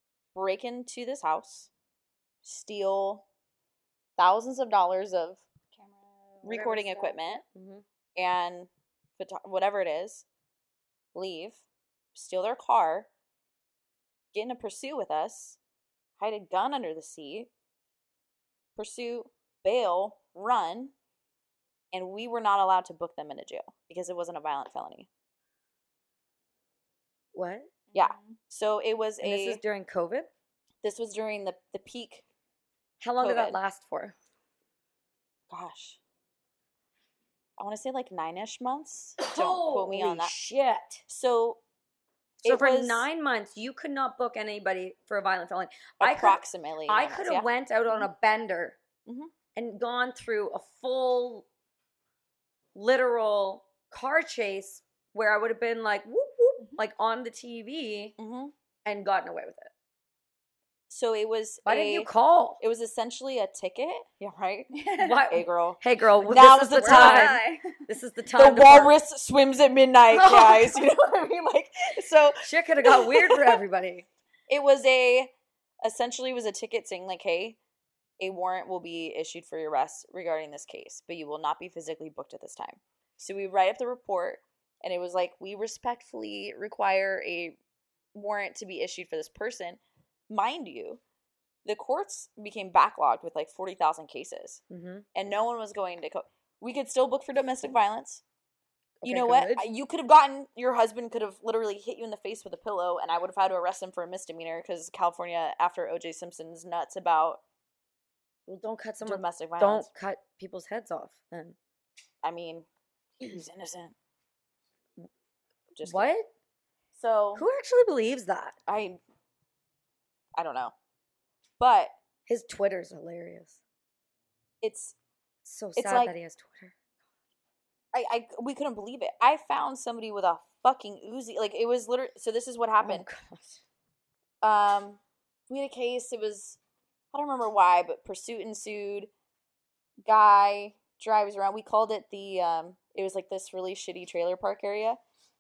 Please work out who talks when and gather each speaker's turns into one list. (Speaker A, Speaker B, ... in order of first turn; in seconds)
Speaker A: 0.3-1.7, 2.4-3.2, 4.2-5.5, 6.4-7.4, 8.2-10.3, 11.1-11.6, 12.2-13.1, 14.3-15.6, 16.2-17.5, 18.8-20.9, 21.9-25.1, 27.9-29.6, 30.8-32.3, 33.2-33.6, 35.5-36.0, 37.6-40.3, 41.1-41.6, 42.4-43.0, 46.0-47.5, 49.1-49.3, 58.2-58.5, 60.9-67.4, 68.4-73.6, 74.5-77.6, 78.2-87.6, 88.1-91.0, 91.7-94.6, 95.2-98.2, 99.0-107.4, 109.0-109.9, 112.2-112.7, 113.2-114.0, 115.8-116.1, 116.9-117.4, 118.7-119.0, 120.4-120.7, 121.6-121.9, 124.6-125.0, 125.8-126.1, 127.9-133.1, 134.4-136.6, 137.1-139.1, 140.0-145.0
Speaker B: 5.7-7.4, 27.9-28.4, 64.8-65.3, 66.8-67.8
Speaker C: 7.4-7.8, 27.3-27.7, 29.2-30.3, 33.0-34.2, 39.2-41.0, 42.5-48.8, 49.5-51.5, 52.8-58.2, 58.9-59.7, 61.7-62.6, 65.0-68.9, 70.1-70.8, 72.4-74.1, 94.7-95.0, 99.0-99.7, 108.5-111.6, 115.8-116.3, 117.4-118.6, 122.3-123.6, 125.5-126.7, 132.8-133.6